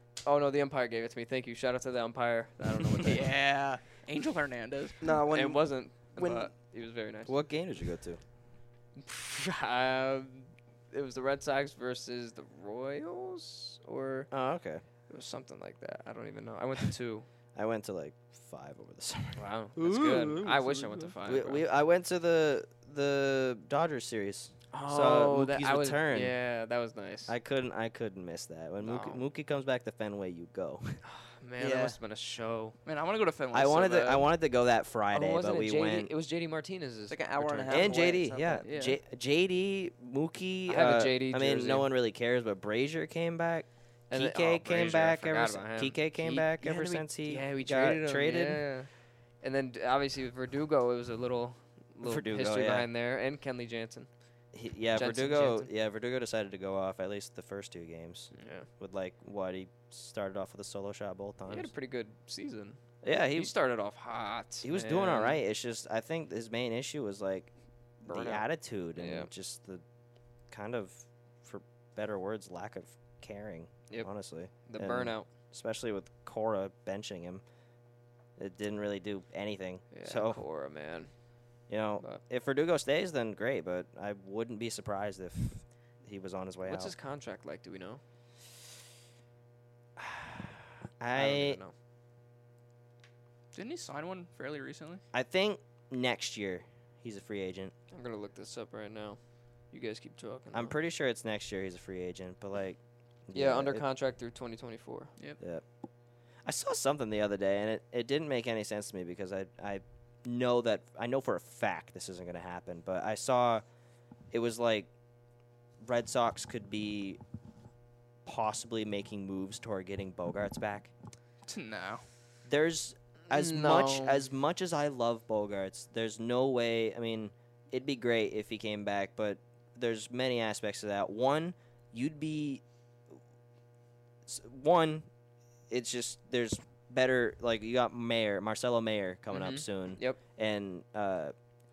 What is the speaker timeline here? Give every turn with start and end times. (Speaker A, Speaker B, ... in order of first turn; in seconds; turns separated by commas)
Speaker A: 0.2-3.3, Speaker B: 3.0-5.0, Speaker C: 5.0-6.5, Speaker A: 5.3-7.4, Speaker D: 7.3-8.2, Speaker A: 9.0-14.3, Speaker D: 14.3-14.8, Speaker A: 15.1-17.3, Speaker D: 17.6-19.4, Speaker A: 19.4-21.6, Speaker D: 21.2-26.4, Speaker A: 24.7-27.3, Speaker D: 27.3-31.0, Speaker A: 28.8-29.3, Speaker A: 31.1-32.8, Speaker C: 31.6-32.0, Speaker B: 32.9-34.3, Speaker D: 33.5-36.1, Speaker A: 35.1-38.0, Speaker C: 37.1-38.7, Speaker D: 37.7-48.6, Speaker B: 38.6-39.0, Speaker A: 40.7-41.9, Speaker A: 44.1-48.9, Speaker A: 49.4-54.1, Speaker D: 52.0-52.9, Speaker D: 54.5-61.7, Speaker A: 54.9-55.7, Speaker A: 58.3-58.7, Speaker A: 61.5-62.8, Speaker D: 63.0-63.5, Speaker A: 63.3-65.4, Speaker D: 64.6-67.5, Speaker D: 68.0-69.8, Speaker A: 68.1-69.3, Speaker D: 70.5-77.4, Speaker A: 73.9-75.3, Speaker D: 78.4-80.4, Speaker A: 79.9-81.1, Speaker D: 81.7-86.9, Speaker A: 86.6-88.0, Speaker D: 91.0-91.6, Speaker A: 91.1-91.7, Speaker B: 93.5-95.0, Speaker D: 95.1-97.7, Speaker A: 97.9-100.8, Speaker D: 100.5-103.8, Speaker A: 103.3-105.1, Speaker D: 105.4-105.6, Speaker D: 106.5-113.6, Speaker D: 114.3-114.9, Speaker D: 115.8-117.2, Speaker D: 118.2-120.9, Speaker B: 121.5-122.0, Speaker D: 122.5-132.6, Speaker A: 123.3-124.2, Speaker D: 134.3-135.1, Speaker D: 135.7-141.3, Speaker A: 139.3-140.2